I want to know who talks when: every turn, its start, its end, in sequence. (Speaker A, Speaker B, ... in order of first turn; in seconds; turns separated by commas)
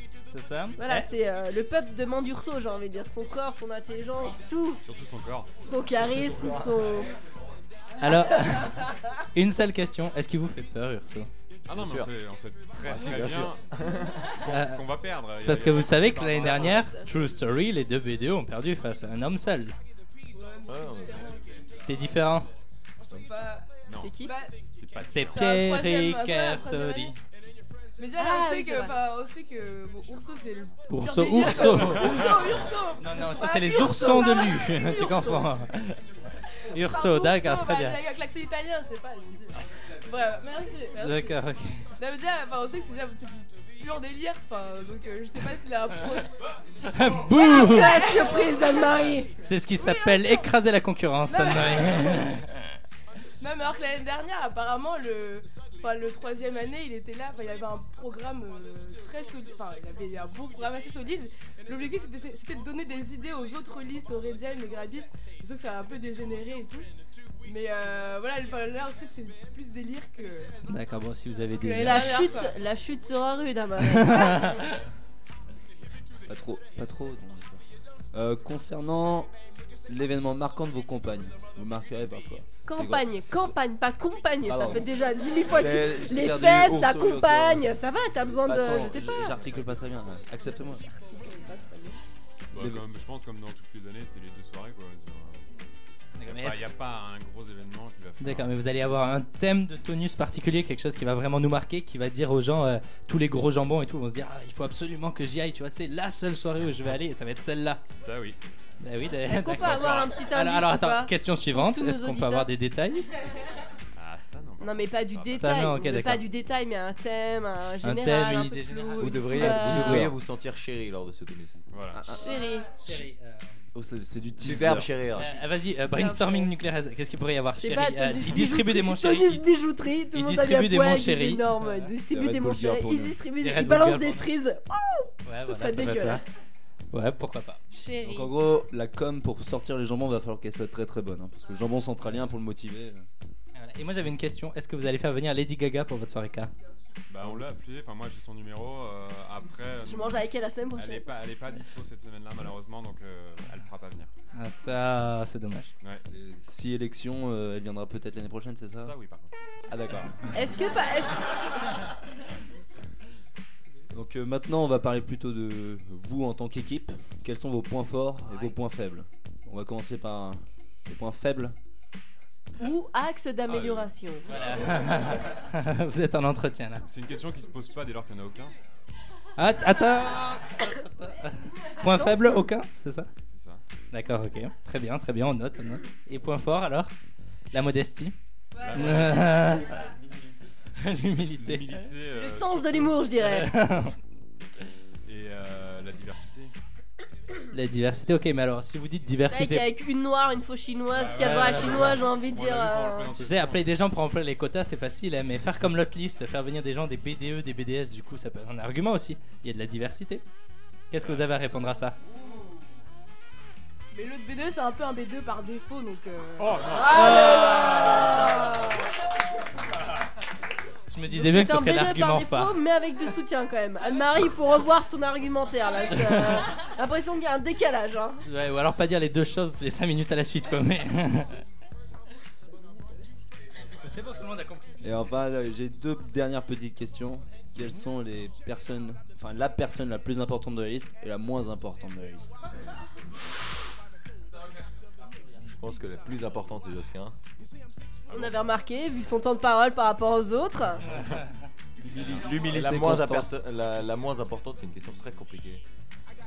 Speaker A: 0.3-1.1, Speaker B: 0.8-4.8, Speaker C: 4.8-6.8, Speaker B: 5.6-7.1, Speaker A: 8.0-8.8, Speaker A: 9.3-11.3, Speaker C: 11.7-13.6, Speaker D: 11.7-12.1, Speaker D: 12.8-14.3, Speaker C: 14.4-16.9, Speaker A: 14.5-14.8, Speaker A: 15.4-19.7, Speaker B: 16.4-17.1, Speaker E: 20.3-22.1, Speaker D: 20.7-21.3, Speaker A: 21.7-22.5, Speaker E: 23.1-23.7, Speaker C: 23.9-24.1, Speaker B: 23.9-24.3, Speaker E: 24.2-24.6, Speaker C: 24.8-25.4, Speaker A: 25.0-27.2, Speaker E: 25.2-27.1, Speaker E: 28.0-35.0, Speaker B: 28.1-28.9, Speaker A: 30.9-32.3, Speaker A: 33.0-36.0, Speaker B: 33.4-35.4, Speaker A: 36.7-38.0, Speaker E: 36.7-41.4, Speaker A: 40.9-41.8, Speaker E: 42.0-46.3, Speaker A: 46.9-48.1, Speaker E: 47.3-49.2, Speaker B: 47.3-49.3, Speaker A: 49.4-52.7, Speaker E: 49.8-50.5, Speaker E: 51.2-52.2, Speaker E: 53.4-66.9, Speaker E: 67.4-70.5, Speaker A: 70.7-72.2, Speaker E: 71.6-72.5, Speaker B: 71.7-74.5, Speaker A: 73.8-74.8, Speaker F: 76.3-77.6, Speaker F: 78.1-79.3, Speaker F: 79.9-83.1, Speaker B: 82.7-89.4, Speaker F: 84.5-84.8, Speaker F: 85.4-87.7, Speaker F: 88.3-90.8, Speaker B: 90.9-92.0, Speaker C: 92.5-95.4, Speaker F: 92.5-92.8, Speaker A: 96.2-96.7, Speaker C: 96.2-98.5, Speaker A: 98.2-107.8, Speaker C: 108.0-108.4, Speaker A: 108.8-113.0, Speaker B: 109.3-112.5, Speaker C: 109.6-110.1, Speaker C: 113.9-115.7, Speaker B: 114.6-120.1, Speaker A: 115.3-116.2, Speaker A: 117.8-120.1, Speaker D: 119.0-121.6, Speaker C: 121.7-122.0, Speaker F: 121.9-122.2, Speaker B: 122.1-122.7, Speaker A: 122.8-123.5, Speaker F: 123.7-125.0, Speaker D: 124.4-125.3, Speaker A: 125.1-129.4, Speaker B: 125.9-126.5, Speaker B: 127.6-136.2, Speaker A: 130.1-131.9, Speaker F: 132.1-133.2, Speaker A: 133.4-134.3, Speaker A: 135.2-136.2, Speaker A: 136.9-137.6, Speaker B: 137.8-138.0, Speaker F: 138.0-143.1, Speaker A: 143.5-146.5, Speaker C: 147.1-154.1, Speaker B: 149.8-151.1, Speaker A: 154.3-155.7, Speaker F: 156.1-158.9, Speaker C: 158.8-160.1, Speaker F: 159.7-160.1, Speaker B: 160.3-161.4, Speaker F: 163.9-171.5, Speaker B: 172.6-174.3, Speaker C: 173.5-175.0, Speaker A: 174.3-176.8, Speaker C: 176.9-178.5, Speaker A: 179.4-183.1, Speaker B: 181.9-182.5, Speaker C: 183.3-183.6, Speaker A: 183.9-186.9, Speaker A: 187.5-188.1, Speaker C: 188.6-190.4, Speaker A: 188.7-189.9, Speaker A: 190.8-191.9, Speaker C: 191.3-193.1, Speaker B: 192.2-193.5, Speaker A: 193.2-193.9, Speaker C: 195.1-196.5, Speaker A: 197.5-199.7, Speaker B: 199.3-203.1, Speaker C: 200.9-203.7, Speaker A: 201.1-202.0, Speaker A: 203.1-210.2, Speaker A: 210.9-211.9, Speaker E: 213.9-217.3, Speaker C: 216.4-217.7, Speaker B: 216.8-218.8, Speaker A: 220.9-222.5, Speaker B: 221.1-228.2, Speaker A: 226.0-226.4, Speaker A: 228.2-231.3, Speaker A: 233.8-234.9, Speaker F: 234.8-242.3, Speaker D: 245.4-247.1, Speaker C: 248.1-248.3, Speaker B: 248.1-250.8, Speaker F: 251.9-253.3, Speaker D: 252.0-255.6